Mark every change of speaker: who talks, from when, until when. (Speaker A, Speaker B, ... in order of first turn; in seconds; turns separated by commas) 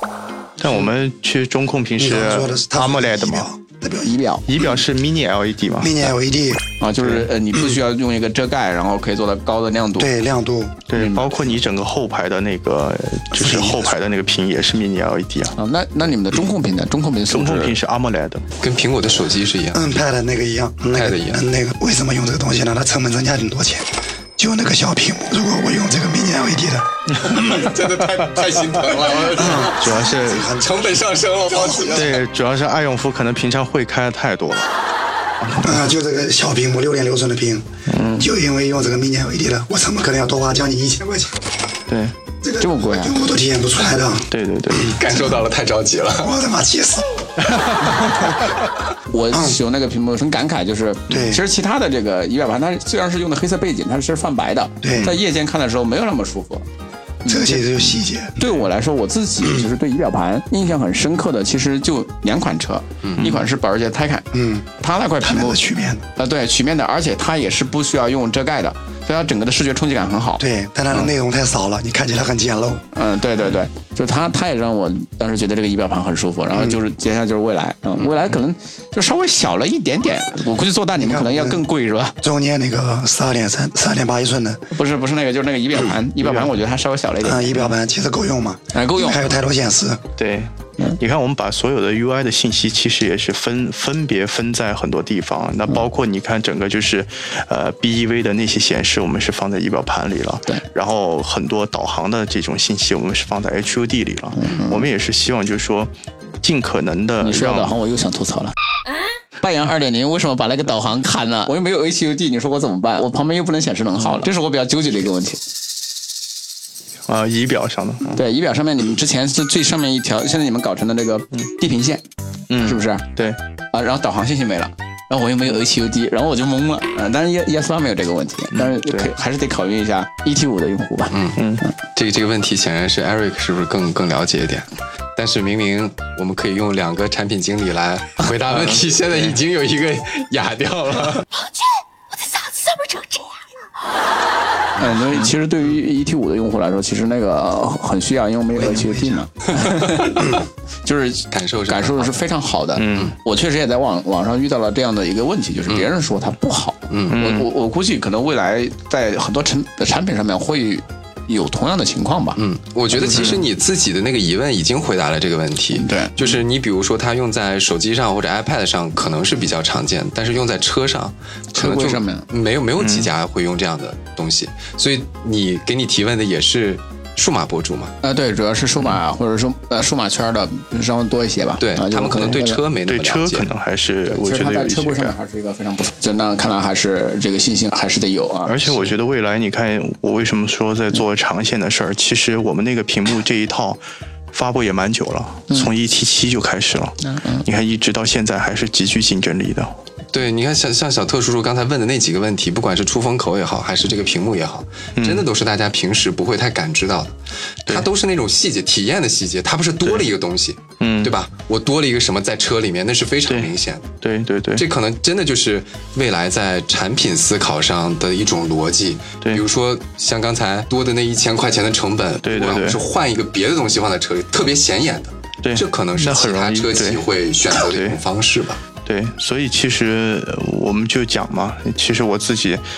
Speaker A: 0.6-3.5, Speaker B: 2.0-4.2, Speaker C: 4.0-4.5, Speaker A: 4.5-6.2, Speaker B: 5.8-6.6, Speaker C: 6.8-10.1, Speaker A: 7.0-7.3, Speaker B: 10.0-10.8, Speaker A: 10.9-15.6, Speaker C: 10.9-11.4, Speaker B: 13.3-13.9, Speaker C: 15.6-17.8, Speaker A: 17.3-18.4, Speaker D: 18.6-19.8, Speaker B: 19.7-27.7, Speaker D: 20.9-21.4, Speaker D: 27.2-30.0, Speaker B: 29.2-32.1, Speaker A: 29.6-30.5, Speaker D: 30.5-32.2, Speaker A: 31.9-34.7, Speaker B: 35.6-41.4, Speaker A: 37.9-38.3, Speaker A: 41.9-42.2, Speaker B: 42.4-44.3, Speaker C: 42.6-43.2, Speaker A: 44.3-45.0, Speaker D: 44.8-46.3, Speaker B: 46.2-47.1, Speaker C: 49.1-56.6, Speaker B: 49.3-49.6, Speaker B: 51.1-51.4, Speaker B: 54.8-55.1, Speaker C: 57.2-57.8, Speaker B: 57.3-58.5, Speaker C: 58.4-65.7, Speaker D: 63.0-63.3, Speaker B: 64.3-64.7, Speaker B: 65.2-66.0, Speaker C: 66.2-71.1, Speaker B: 70.4-72.8, Speaker C: 72.9-82.2, Speaker B: 81.0-81.6, Speaker B: 82.2-84.6, Speaker C: 84.7-87.6, Speaker A: 86.2-86.5, Speaker B: 87.2-90.0, Speaker C: 88.7-89.4, Speaker A: 90.2-107.8, Speaker C: 104.3-104.9, Speaker C: 107.2-108.5, Speaker C: 109.4-115.4, Speaker A: 117.1-118.2, Speaker C: 118.1-122.0, Speaker A: 122.5-123.4, Speaker C: 122.6-123.1, Speaker C: 123.7-131.2, Speaker A: 128.5-129.1, Speaker D: 131.1-131.4, Speaker A: 131.4-131.7, Speaker D: 131.9-141.2, Speaker A: 138.5-138.8, Speaker E: 141.4-143.4, Speaker C: 144.8-150.3, Speaker B: 148.5-149.3, Speaker D: 149.6-150.3, Speaker C: 150.8-162.4, Speaker D: 151.3-152.3, Speaker A: 152.8-153.2, Speaker D: 156.9-157.3, Speaker A: 157.1-157.5, Speaker D: 162.3-177.9, Speaker C: 163.0-163.4, Speaker A: 163.0-163.4, Speaker C: 165.7-166.1, Speaker C: 171.5-172.3, Speaker A: 172.8-173.1, Speaker C: 178.0-182.6, Speaker D: 181.6-183.5, Speaker A: 182.9-185.2, Speaker C: 184.1-188.9, Speaker A: 188.4-193.8, Speaker A: 194.3-199.7, Speaker C: 197.0-197.4, Speaker D: 200.1-207.1, Speaker A: 205.0-205.3, Speaker D: 207.7-213.9, Speaker A: 210.8-211.1, Speaker A: 213.3-214.7, Speaker D: 214.6-228.6, Speaker A: 222.2-222.8, Speaker A: 225.4-228.0, Speaker A: 228.8-232.6